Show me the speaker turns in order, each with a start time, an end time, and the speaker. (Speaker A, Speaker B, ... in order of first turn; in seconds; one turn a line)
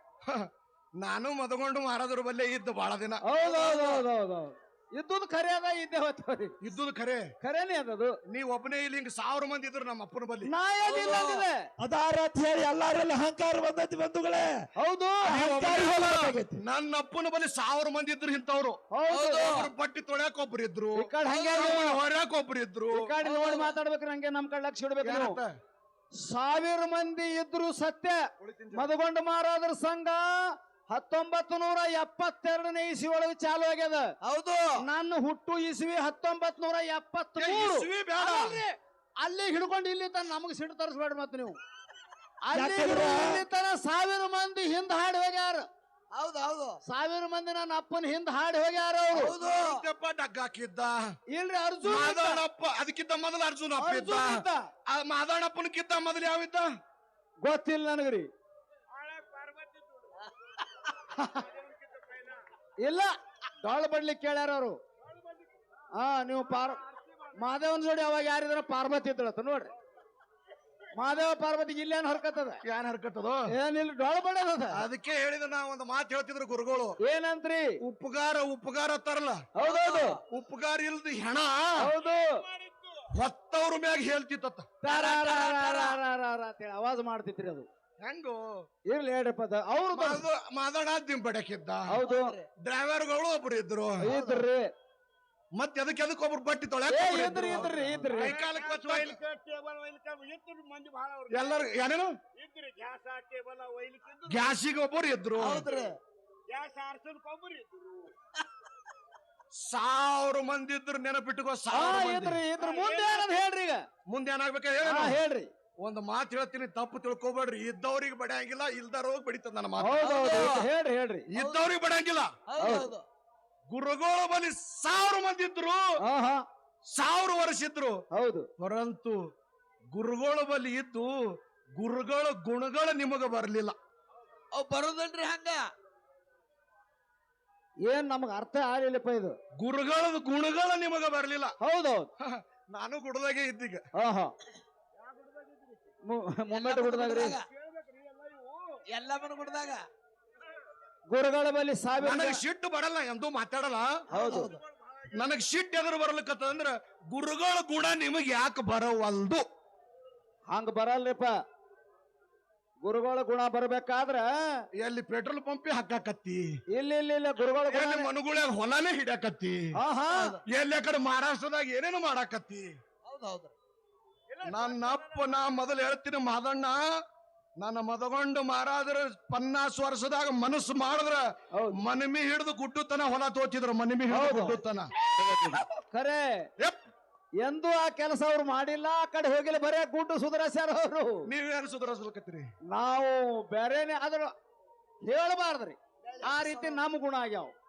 Speaker A: 0.2-3.2
Speaker B: 3.2-6.5
Speaker C: 3.4-4.0
Speaker A: 6.6-7.3
Speaker B: 7.4-8.2
Speaker A: 8.3-10.5
Speaker B: 10.4-11.7
Speaker C: 10.8-11.4
Speaker D: 11.8-14.5
Speaker B: 14.8-15.3
Speaker A: 15.3-18.8
Speaker D: 15.3-16.6
Speaker B: 18.9-19.6
Speaker C: 19.1-19.7
Speaker A: 19.4-23.1
Speaker B: 20.9-22.0
Speaker C: 21.2-21.9
Speaker B: 22.9-25.4
Speaker C: 23.2-23.7
Speaker A: 25.0-25.5
Speaker B: 26.2-30.4
Speaker A: 28.4-28.9
Speaker B: 30.9-34.1
Speaker C: 34.2-34.7
Speaker B: 34.8-41.5
Speaker A: 37.4-38.6
Speaker B: 42.5-45.7
Speaker D: 42.5-43.4
Speaker C: 46.1-46.8
Speaker B: 46.8-49.3
Speaker C: 49.1-49.8
Speaker A: 49.4-51.1
Speaker B: 51.3-52.4
Speaker A: 51.8-56.7
Speaker B: 53.8-54.6
Speaker B: 57.4-58.3
Speaker E: 58.9-60.3
Speaker B: 61.1-61.4
Speaker E: 61.3-62.4
Speaker B: 62.8-63.1
Speaker B: 63.6-64.8
Speaker E: 65.1-65.5
Speaker B: 66.0-66.8
Speaker E: 66.9-67.3
Speaker B: 67.3-69.7
Speaker B: 71.0-72.6
Speaker A: 72.6-73.5
Speaker B: 73.5-74.8
Speaker A: 74.7-77.0
Speaker B: 77.0-77.7
Speaker A: 77.8-79.4
Speaker B: 79.5-80.2
Speaker C: 79.6-80.2
Speaker A: 80.3-81.9
Speaker B: 81.8-82.4
Speaker E: 82.5-83.0
Speaker A: 83.1-84.7
Speaker B: 84.8-87.7
Speaker C: 84.9-86.0
Speaker A: 88.0-88.6
Speaker B: 88.9-90.2
Speaker A: 89.9-91.9
Speaker B: 91.9-92.3
Speaker C: 92.0-92.5
Speaker A: 92.6-94.0
Speaker B: 94.0-94.7
Speaker C: 94.0-94.4
Speaker A: 95.5-99.2
Speaker B: 96.9-98.3
Speaker E: 98.1-101.6
Speaker A: 101.3-102.1
Speaker E: 102.3-104.6
Speaker A: 104.3-105.6
Speaker C: 105.4-106.0
Speaker E: 106.5-108.1
Speaker A: 109.5-112.4
Speaker B: 111.7-113.8
Speaker E: 112.6-113.3
Speaker A: 114.1-115.2
Speaker B: 114.8-115.5
Speaker A: 115.8-120.1
Speaker B: 119.8-121.3
Speaker C: 120.0-120.7
Speaker A: 121.3-122.3
Speaker C: 121.3-121.6
Speaker C: 122.5-123.0
Speaker B: 122.6-122.9
Speaker A: 123.7-125.8
Speaker B: 126.0-126.4
Speaker A: 126.9-128.0
Speaker B: 128.1-128.5
Speaker A: 128.6-129.2
Speaker A: 129.9-131.1
Speaker A: 131.8-133.8
Speaker C: 134.5-135.7
Speaker B: 137.8-139.3
Speaker A: 139.6-141.5
Speaker B: 141.6-142.1
Speaker A: 142.2-143.9
Speaker B: 143.9-144.3
Speaker E: 145.0-145.9
Speaker B: 146.1-147.4
Speaker C: 146.6-147.4
Speaker E: 147.4-148.8
Speaker C: 148.9-149.8
Speaker B: 151.1-152.4
Speaker A: 152.0-154.0
Speaker B: 154.1-154.5
Speaker C: 154.1-154.5
Speaker E: 154.4-155.1
Speaker A: 155.2-159.4
Speaker B: 160.5-161.3
Speaker B: 162.8-164.5
Speaker A: 164.8-166.4
Speaker B: 166.8-168.1
Speaker A: 167.7-169.7
Speaker B: 169.8-170.4
Speaker C: 170.1-170.4
Speaker A: 170.5-172.7
Speaker C: 173.0-173.5
Speaker E: 174.3-175.4
Speaker A: 174.4-176.8
Speaker A: 177.6-184.9
Speaker B: 184.1-184.6
Speaker C: 185.1-185.7
Speaker B: 185.9-186.5
Speaker B: 187.4-191.3
Speaker A: 191.3-192.5
Speaker B: 192.7-194.3
Speaker B: 195.1-197.5